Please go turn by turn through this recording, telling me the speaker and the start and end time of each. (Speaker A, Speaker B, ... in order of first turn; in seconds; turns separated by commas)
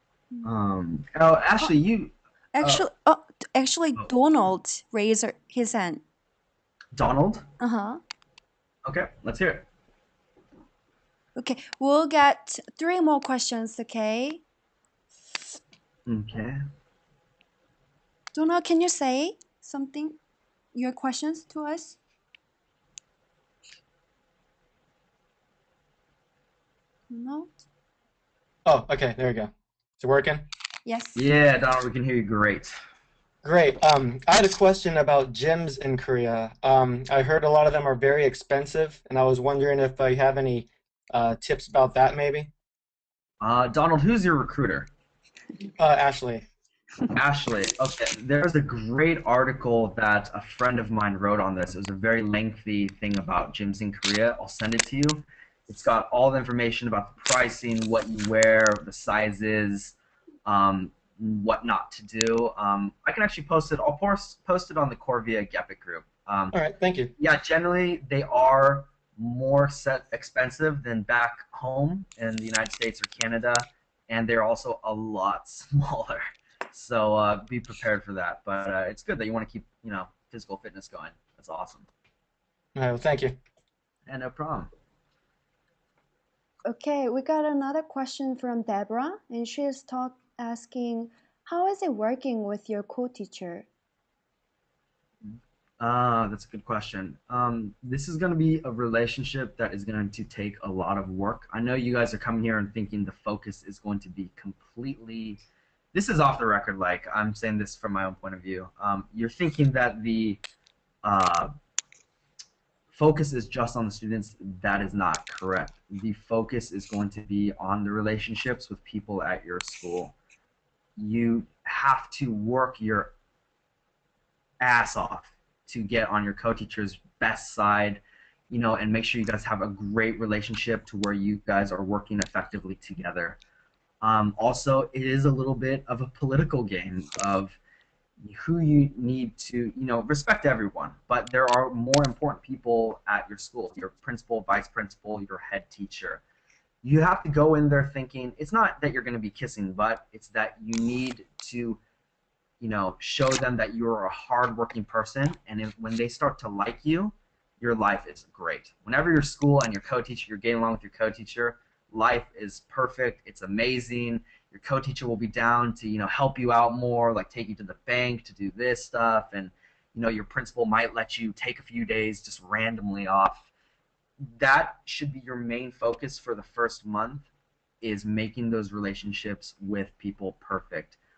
Speaker A: 0.4-2.9, Speaker B: 2.5-6.0, Speaker A: 6.9-7.5, Speaker B: 7.6-8.0, Speaker A: 8.9-9.7, Speaker B: 11.4-14.4, Speaker A: 16.1-16.6, Speaker B: 18.3-20.2, Speaker B: 20.7-22.0, Speaker B: 27.1-27.6, Speaker C: 28.6-30.5, Speaker B: 30.9-31.2, Speaker A: 31.1-32.8, Speaker C: 33.4-42.5, Speaker A: 43.4-44.9, Speaker C: 45.8-46.4, Speaker A: 47.1-60.0, Speaker A: 60.5-66.6, Speaker C: 66.5-67.1, Speaker A: 67.2-81.9, Speaker C: 82.8-83.4, Speaker A: 84.1-84.7, Speaker B: 86.7-93.7, Speaker A: 95.2-105.4, Speaker A: 105.9-110.4, Speaker A: 111.0-111.5, Speaker A: 112.9-120.2, Speaker A: 121.0-123.1, Speaker A: 124.6-133.4, Speaker A: 134.0-137.6, Speaker A: 138.2-146.2, Speaker A: 146.8-151.8, Speaker A: 152.6-173.5, Speaker A: 174.2-177.3, Speaker A: 177.8-181.0